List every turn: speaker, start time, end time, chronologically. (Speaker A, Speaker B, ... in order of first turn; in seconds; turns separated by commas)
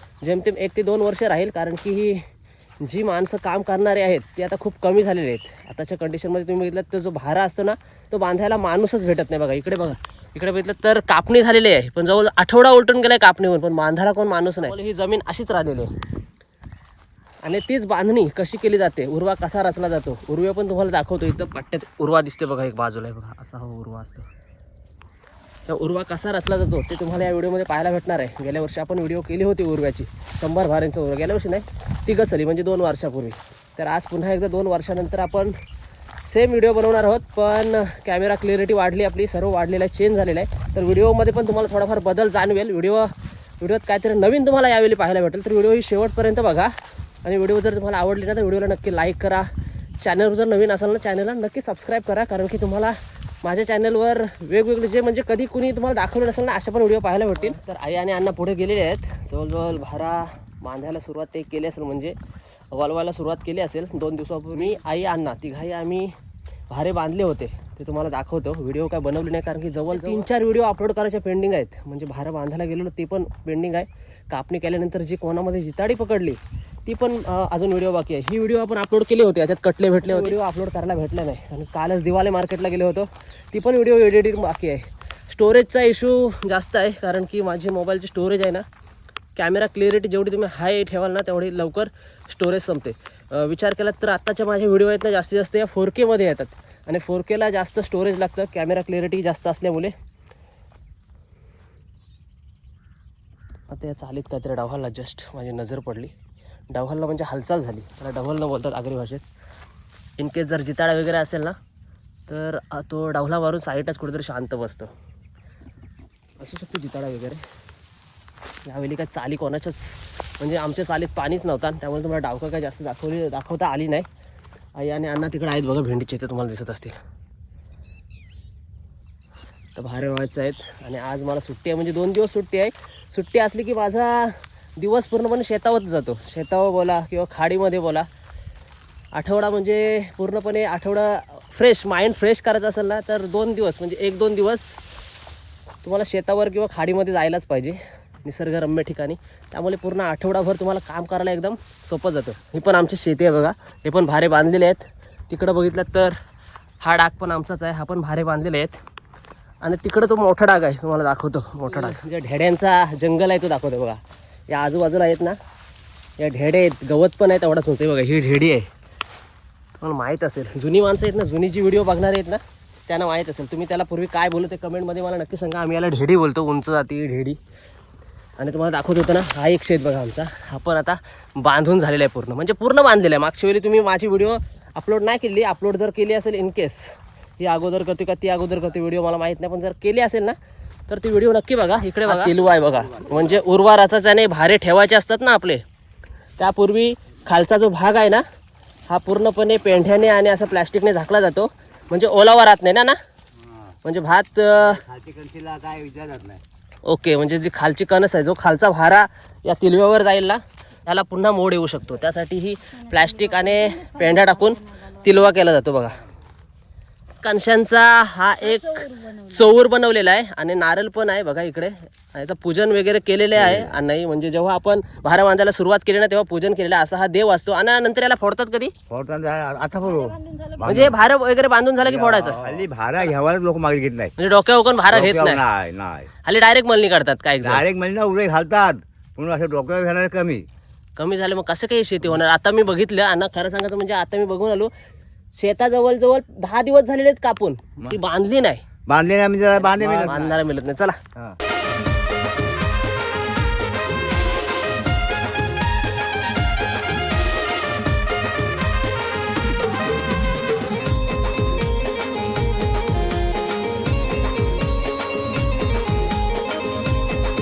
Speaker A: 0.2-2.2, Speaker A: 2.8-15.9, Speaker A: 17.4-24.3, Speaker A: 25.7-35.5, Speaker A: 36.3-46.7, Speaker A: 47.2-49.5, Speaker A: 50.0-62.2, Speaker A: 62.7-66.2, Speaker A: 66.7-88.6, Speaker A: 89.4-99.9, Speaker A: 103.7-106.1, Speaker A: 106.7-109.2, Speaker A: 110.2-111.6, Speaker A: 112.3-114.9, Speaker A: 116.4-117.4, Speaker A: 118.7-124.1, Speaker A: 124.8-127.0, Speaker A: 129.8-138.1, Speaker A: 139.2-144.8, Speaker A: 145.8-156.2, Speaker A: 156.8-158.8, Speaker A: 159.6-165.4, Speaker A: 166.2-168.7, Speaker A: 169.8-177.4, Speaker A: 178.4-190.4, Speaker A: 190.9-195.6, Speaker B: 192.1-193.4, Speaker A: 196.4-198.2, Speaker A: 198.9-203.0, Speaker A: 203.8-204.8, Speaker B: 204.6-206.4, Speaker A: 206.8-216.0, Speaker A: 217.2-228.7, Speaker B: 223.3-223.7, Speaker B: 228.9-231.0, Speaker A: 230.6-232.7, Speaker B: 231.8-234.1, Speaker A: 234.2-235.4, Speaker B: 234.9-236.1, Speaker A: 236.2-237.7, Speaker B: 237.4-240.5, Speaker A: 241.0-244.7, Speaker A: 245.4-248.6, Speaker B: 248.9-250.4, Speaker A: 249.5-251.0